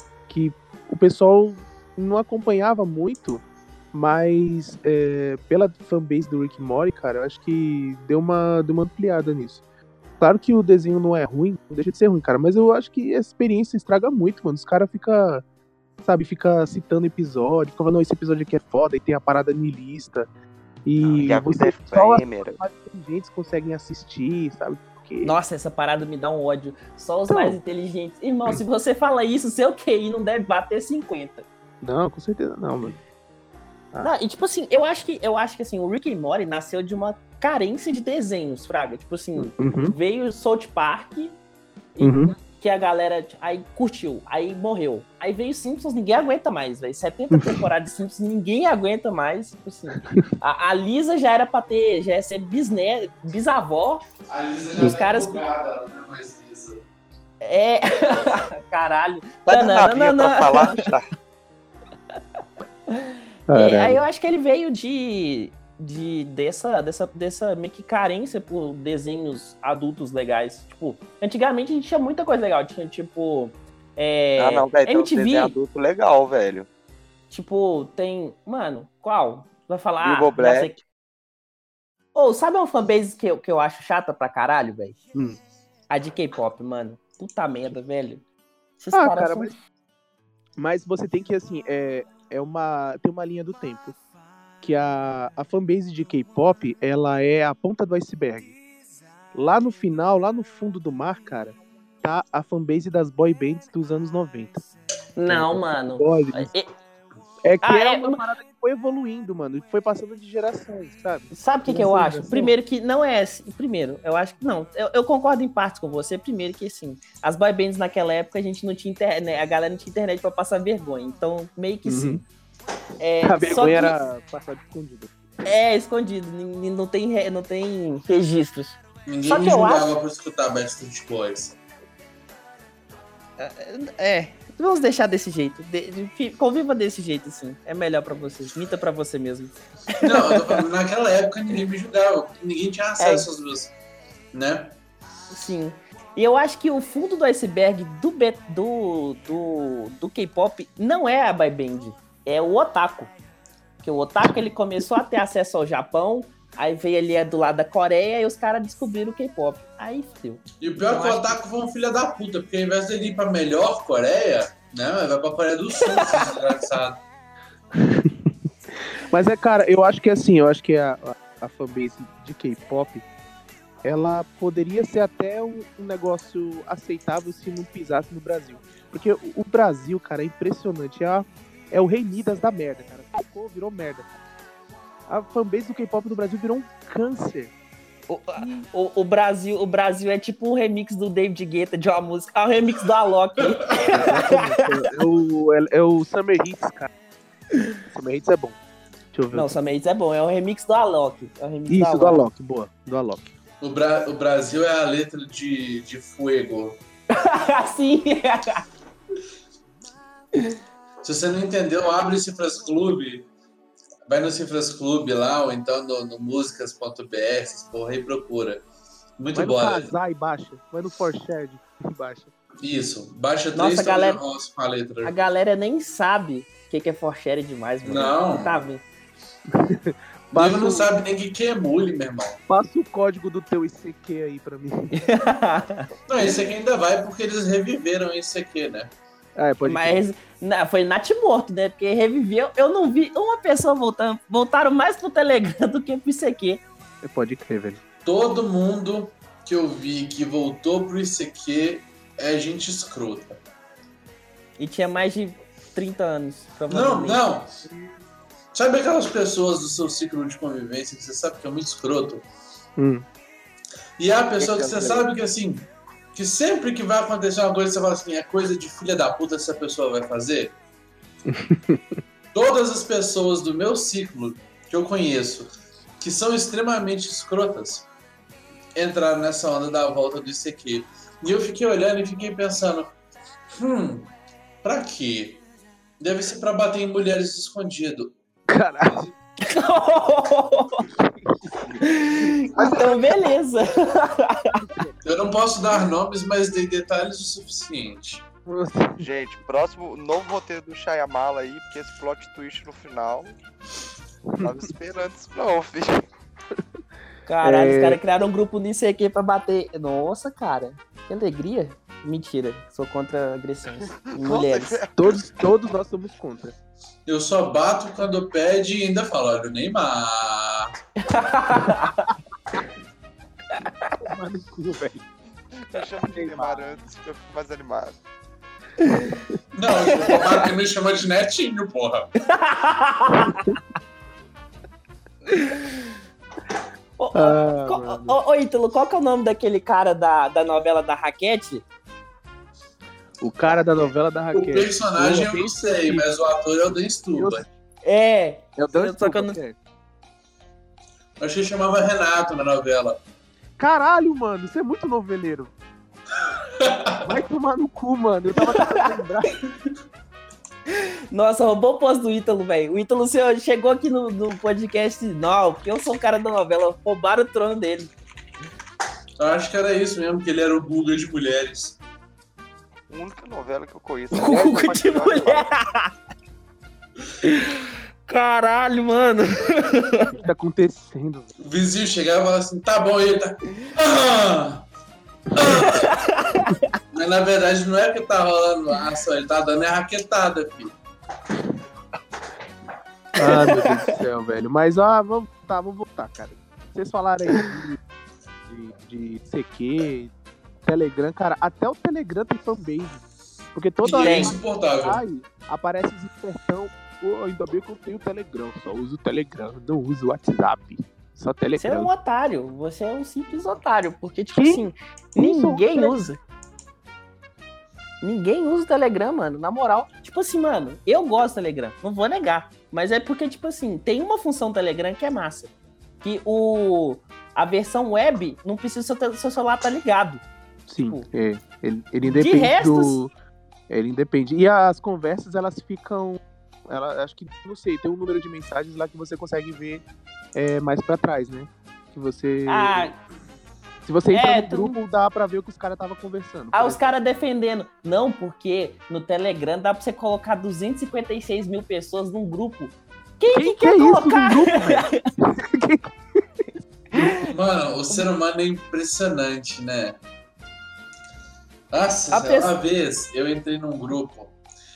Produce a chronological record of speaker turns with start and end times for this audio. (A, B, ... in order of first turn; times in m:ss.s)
0:00.3-0:09.6 A
0:10.2-0:15.4 A
0:16.0-0:20.3 A
0:20.8-0:25.3 A
0:21.0-0:22.6 B
0:25.2-0:31.4 C
0:27.3-0:27.6 A
0:31.8-0:33.0 A
0:34.0-0:41.4 C
0:39.4-0:40.0 A
0:42.0-0:54.0 C
0:42.0-0:42.3 A
0:47.3-0:47.6 A
0:54.3-0:56.8 D
0:54.8-0:55.4 C
0:57.4-1:00.8 C
0:59.5-1:01.1 B
1:02.9-1:15.5 C
1:03.5-1:04.0 A
1:14.4-1:16.7 B
1:17.3-1:20.8 C
1:20.0-1:20.8 B
1:22.2-1:25.0 C
1:25.9-1:28.2 C
1:28.8-1:29.6 C
1:28.9-1:29.5 A
1:30.6-1:34.0 A
1:34.6-1:38.6 A
1:39.3-1:44.7 A
1:45.2-1:46.7 C
1:45.3-1:46.5 A
1:47.4-1:52.6 A
1:47.6-1:48.2 C
1:51.3-2:02.2 C
2:01.9-2:02.2 A
2:03.0-2:04.0 C
2:03.2-2:05.1 A
2:05.4-2:09.9 C
2:09.1-2:11.6 D
2:13.4-2:20.6 C
2:20.0-2:23.7 D
2:23.0-2:23.3 C
2:24.3-2:24.8 D
2:25.3-2:33.1 C
2:33.8-2:41.4 C
2:40.6-2:47.0 D
2:45.9-2:46.2 C
2:47.8-2:48.3 A
2:49.1-2:53.0 A
2:53.8-3:04.1 A
3:05.1-3:07.5 A
3:08.1-3:14.8 C
3:08.4-3:08.7 A
3:13.4-3:14.2 D
3:13.9-3:16.9 A
3:17.9-3:18.6 A
3:19.1-3:19.5 A
3:19.3-3:22.2 C
3:21.7-3:23.3 A
3:23.6-3:26.8 D
3:27.1-3:28.6 C
3:31.0-3:33.3 D
3:34.1-3:38.6 D
3:39.2-3:39.9 D
3:39.4-3:42.3 A
3:42.6-3:45.1 D
3:43.6-3:44.2 C
3:45.0-3:48.8 C
3:47.8-3:48.5 D
3:49.5-3:50.9 A
3:50.3-3:52.4 D
3:52.5-3:54.9 A
3:54.9-3:55.9 C
3:56.1-3:58.9 D
3:59.4-4:00.0 A
3:59.6-4:06.6 C
4:07.0-4:07.8 A
4:08.0-4:13.4 D
4:14.6-4:17.2 C
4:16.7-4:17.6 D
4:17.6-4:17.9 A
4:18.5-4:22.2 D
4:22.8-4:23.0 A
4:24.0-4:30.6 D
4:24.4-4:25.1 A
4:31.3-4:32.0 A
4:32.3-4:37.9 D
4:38.8-4:42.9 D
4:43.5-4:44.1 D
4:44.6-4:45.4 D
4:46.0-4:48.1 D
4:48.5-4:49.1 A
4:49.4-4:50.9 C
4:51.0-4:51.8 A
4:51.8-4:54.6 C
4:52.5-4:53.0 A
4:54.6-4:55.0 A
4:55.0-4:58.2 D
4:58.5-4:59.0 A
4:59.0-5:03.4 B
5:04.4-5:06.1 B
5:07.3-5:14.8 C
5:07.4-5:08.0 A
5:14.1-5:15.3 B
5:15.0-5:16.6 A
5:17.1-5:20.8 D
5:21.0-5:22.1 C
5:24.0-5:25.0 A
5:25.6-5:28.0 B
5:26.0-5:26.7 A
5:29.6-5:32.1 D
5:30.0-5:30.4 C
5:32.2-5:33.5 C
5:33.3-5:33.6 A
5:35.3-5:35.8 C
5:37.0-5:41.6 C
5:37.2-5:38.2 A
5:43.2-5:46.0 A
5:44.3-5:47.4 D
5:47.2-5:47.4 A
5:47.8-5:49.4 C
5:48.6-5:49.6 A
5:51.2-5:53.0 D
5:53.6-5:55.5 A
5:56.6-5:57.0 D
5:57.0-5:59.3 A
5:58.6-5:58.9 C
6:00.7-6:07.9 C
6:09.2-6:11.8 D
6:12.9-6:15.5 B
6:14.1-6:15.9 C
6:17.2-6:20.1 C
6:20.1-6:21.3 A
6:21.4-6:24.7 D
6:25.3-6:25.9 D
6:25.4-6:26.7 C
6:26.9-6:30.7 D
6:33.2-6:37.8 A
6:33.3-6:33.6 C
6:38.5-6:40.1 A
6:40.6-6:51.9 A
6:43.8-6:45.0 D
6:43.9-6:44.4 C
6:51.6-6:56.2 C
6:54.4-6:54.6 A
6:55.2-6:56.0 A
6:58.0-7:05.5 C
7:06.0-7:10.2 C
7:10.7-7:13.1 A
7:12.0-7:13.0 C
7:13.7-7:19.8 A
7:20.4-7:22.9 A
7:22.5-7:23.0 C
7:23.9-7:26.8 A
7:24.1-7:24.8 C
7:26.5-7:35.0 C
7:33.3-7:36.2 A
7:37.1-7:40.0 D
7:41.7-7:44.4 D
7:42.1-7:42.5 C